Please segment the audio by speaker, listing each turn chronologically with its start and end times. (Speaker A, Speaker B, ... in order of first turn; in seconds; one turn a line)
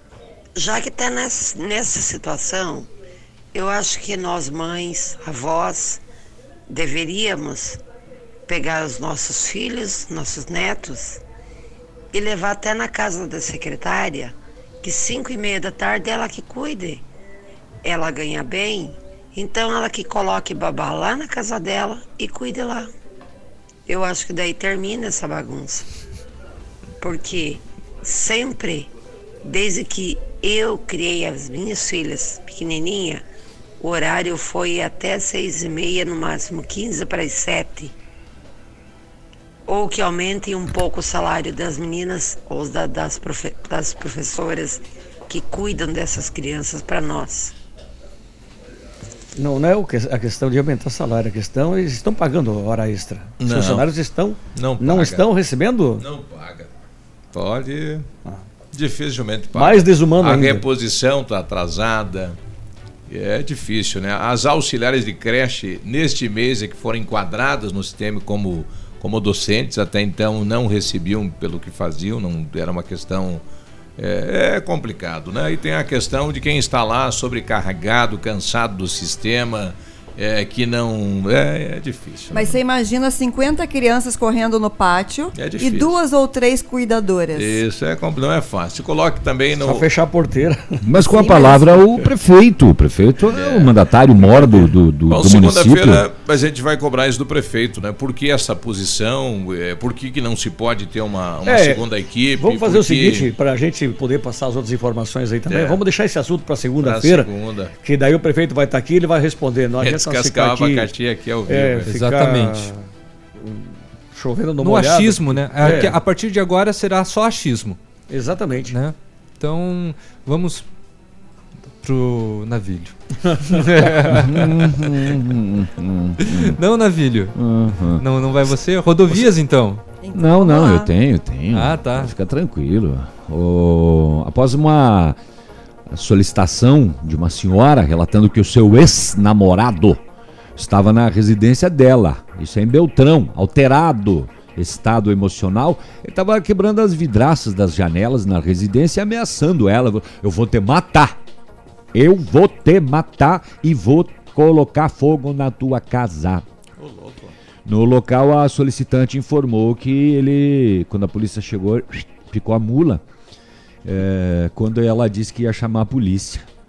Speaker A: 0.6-2.9
Speaker A: 3.5-6.0
Speaker A: 6.7-7.8
Speaker A: 8.5-11.2
Speaker A: 12.1-17.0
Speaker A: 17.8-22.9
Speaker A: 23.9-25.8
Speaker A: 27.0-28.9
Speaker A: 29.4-33.2
Speaker A: 33.8-37.9
Speaker A: 39.7-47.5
Speaker B: 49.4-56.0
Speaker C: 53.4-53.9
Speaker C: 54.5-55.2
Speaker C: 56.0-56.7
Speaker C: 57.3-58.1
Speaker C: 58.7-62.4
Speaker B: 59.5-60.6
Speaker C: 63.1-73.4
Speaker C: 74.0-82.6
Speaker D: 82.3-87.6
Speaker C: 85.3-86.0
Speaker C: 87.3-89.8
Speaker B: 89.5-90.8
Speaker E: 90.8-96.0
Speaker D: 91.1-91.8
Speaker C: 93.2-93.8
Speaker B: 94.3-94.6
Speaker C: 95.1-103.3
Speaker B: 101.5-101.8
Speaker B: 102.4-107.3
Speaker C: 105.5-105.8
Speaker C: 106.8-107.7
Speaker B: 107.8-110.9
Speaker C: 109.8-111.9
Speaker B: 111.5-112.8
Speaker F: 111.9-112.7
Speaker B: 113.4-116.0
Speaker F: 114.6-117.8
Speaker B: 118.1-118.7
Speaker F: 118.6-120.7
Speaker F: 121.7-122.9
Speaker F: 123.5-124.7
Speaker E: 124.0-126.6
Speaker F: 126.2-127.3
Speaker E: 127.3-128.0
Speaker F: 127.9-129.8
Speaker D: 130.0-130.9
Speaker E: 130.1-135.2
Speaker F: 131.5-132.1
Speaker E: 135.9-140.0
Speaker E: 140.6-151.2
Speaker E: 151.9-156.4
Speaker C: 156.8-157.3
Speaker E: 157.7-163.0
Speaker E: 163.8-166.5